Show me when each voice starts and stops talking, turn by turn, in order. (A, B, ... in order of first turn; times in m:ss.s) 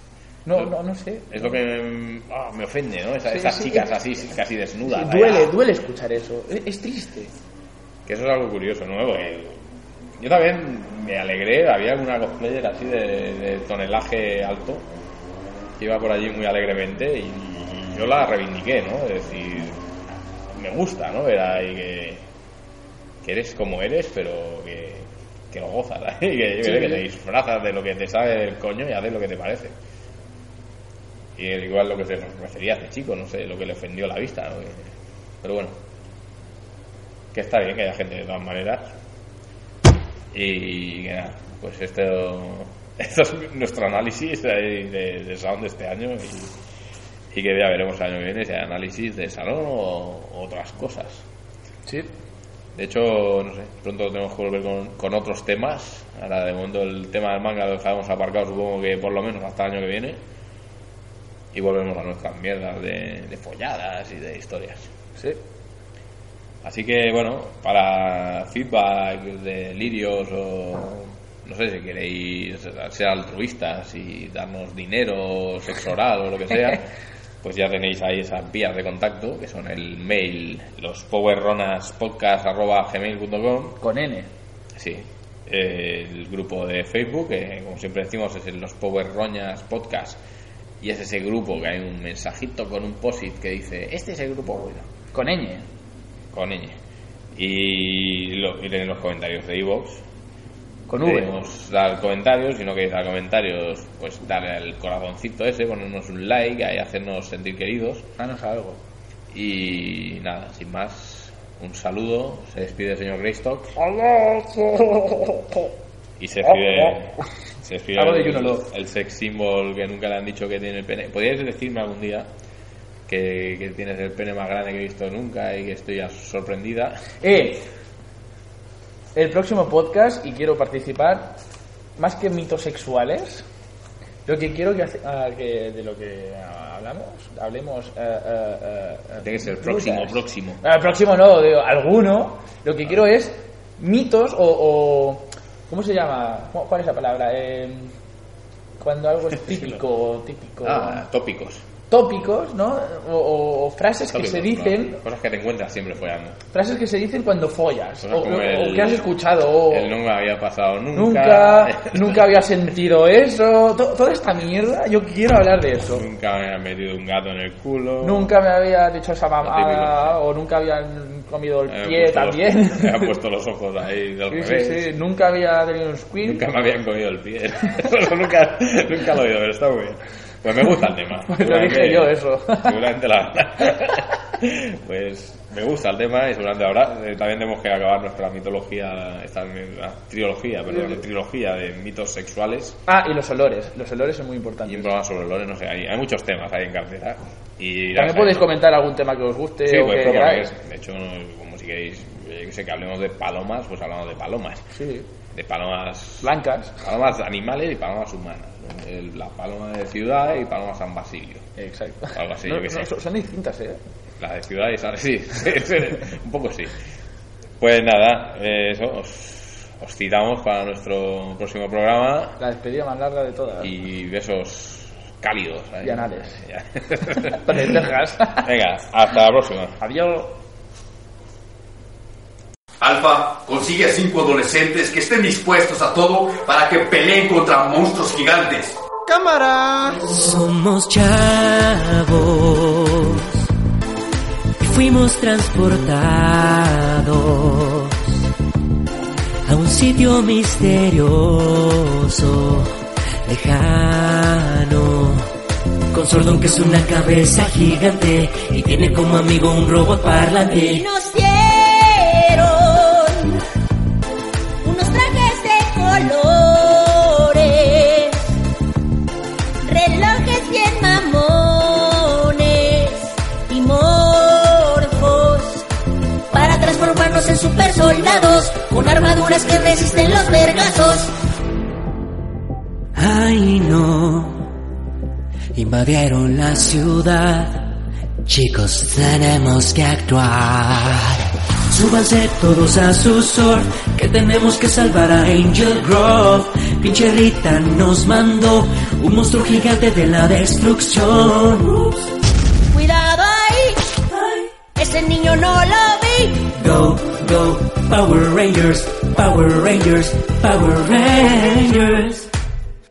0:00.5-0:01.6 A
0:01.3-0:05.5 B
0:03.3-0:03.9 A
0:04.9-0:07.3 A
0:08.1-0:09.6 B
0:10.2-0:14.8 B
0:15.8-0:19.8 B
0:20.5-0:22.2 B
0:23.2-0:29.8 B
0:26.6-0:27.0 A
0:31.4-0:34.9 B
0:35.4-0:35.8 B
0:37.3-0:38.9 B
0:40.3-0:46.6 B
0:47.3-0:51.2 B
0:52.8-1:00.2 B
1:01.5-1:04.9 B
1:06.6-1:16.8 B
1:17.4-1:23.8 B
1:23.8-1:24.3 A
1:24.8-1:30.2 B
1:30.8-1:34.9 B
1:35.1-1:35.7 A
1:36.3-1:36.8 B
1:37.4-1:40.0 B
1:40.9-1:41.3 A
1:41.0-1:48.1 B
1:48.2-1:48.8 A
1:49.3-1:53.8 B
1:53.8-1:55.3 A
1:56.2-2:02.3 B
1:56.5-1:56.9 A
1:58.0-1:58.7 A
2:03.1-2:07.0 B
2:07.2-2:07.6 A
2:09.2-2:11.4 A
2:12.0-2:13.5 A
2:14.3-2:27.9 A
2:19.2-2:20.6 B
2:28.8-2:31.0 A
2:29.4-2:29.8 B
2:30.6-2:31.6 B
2:31.9-2:35.0 A
2:34.1-2:36.4 B
2:36.5-2:40.0 A
2:38.0-2:39.1 B
2:39.7-2:42.5 B
2:41.0-2:46.0 A
2:45.9-2:48.3 B
2:48.0-2:53.1 A
2:49.4-2:50.2 B
2:51.7-2:54.9 B
2:54.3-2:56.4 A
2:56.2-3:12.8 B
3:01.3-3:02.8 A
3:10.7-3:11.0 A
3:12.9-3:14.9 A
3:14.7-3:18.5 B
3:18.0-3:20.5 A
3:19.6-3:24.6 B
3:24.7-3:25.1 A
3:25.3-3:31.4 B
3:26.2-3:26.8 A
3:31.6-3:33.8 A
3:32.2-3:32.9 B
3:34.2-3:36.8 B
3:37.6-3:42.4 B
3:42.4-3:43.7 A
3:43.6-3:49.8 B
3:45.8-3:46.4 A
3:47.1-3:48.5 A
3:49.8-3:50.4 A
3:52.8-3:59.9 C
4:00.0-4:03.3 D
4:04.6-4:08.1 D
4:09.5-4:15.3 D
4:15.9-4:20.8 D
4:20.5-4:23.4 E
4:24.6-4:28.3 E
4:29.6-4:35.7 E
4:36.3-4:41.1 E
4:43.0-4:44.5 D
4:45.6-5:02.1 D
5:02.7-5:04.0 E
5:04.1-5:04.5 D
5:04.8-5:06.5 E
5:06.5-5:12.3 D